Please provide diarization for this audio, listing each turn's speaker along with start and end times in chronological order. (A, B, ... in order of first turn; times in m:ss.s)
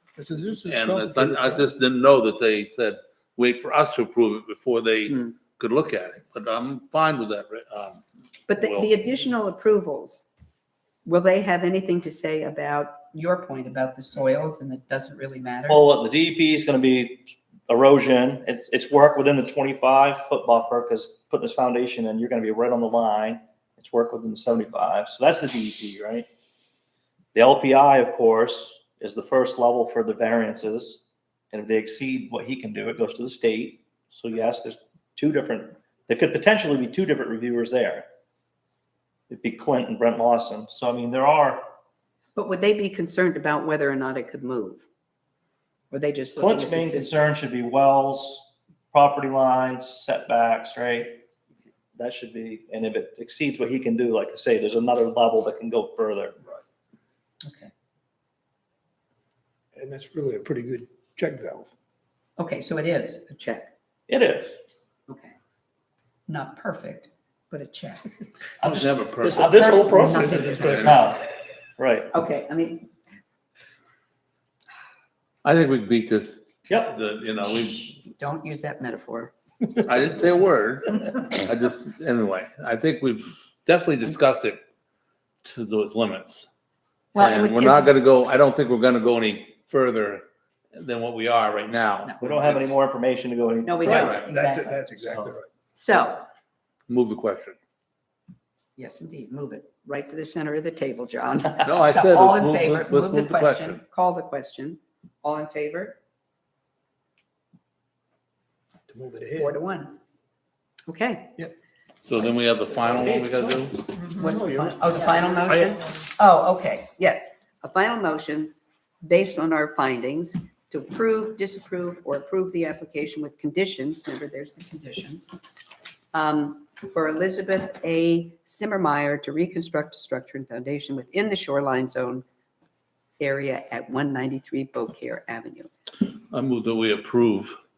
0:00.2-0:01.7 A
0:00.6-0:08.0 B
0:08.5-0:10.2 C
0:08.5-0:08.9 B
0:11.1-0:15.9 C
0:15.7-0:26.3 D
0:27.3-0:38.1 D
0:39.3-0:41.6 D
0:42.4-0:44.8 C
0:45.9-0:47.2 C
0:46.4-0:51.2 D
0:52.0-0:56.4 D
0:57.4-0:57.7 C
0:59.8-1:01.7 A
1:02.4-1:03.7 C
1:04.1-1:04.6 D
1:05.1-1:05.3 C
1:06.3-1:08.1 C
1:08.6-1:09.7 B
1:08.6-1:11.2 D
1:09.2-1:10.9 A
1:09.4-1:10.9 C
1:10.4-1:11.0 B
1:11.8-1:12.1 D
1:12.1-1:12.9 C
1:15.4-1:18.0 B
1:16.7-1:16.9 D
1:18.1-1:19.3 C
1:19.8-1:24.6 B
1:25.4-1:26.5 B
1:27.2-1:28.0 C
1:27.2-1:32.7 B
1:32.2-1:34.2 D
1:33.6-1:36.2 C
1:33.9-1:35.5 A
1:33.9-1:34.3 B
1:36.9-1:37.6 B
1:38.8-1:46.0 C
1:41.6-1:43.8 B
1:48.9-1:49.5 A
1:49.4-1:50.0 C
1:50.9-1:51.4 C
1:52.0-1:53.8 B
1:52.7-1:56.1 A
1:54.2-2:05.2 C
2:06.1-2:12.2 C
2:13.2-2:15.7 C
2:16.3-2:17.6 B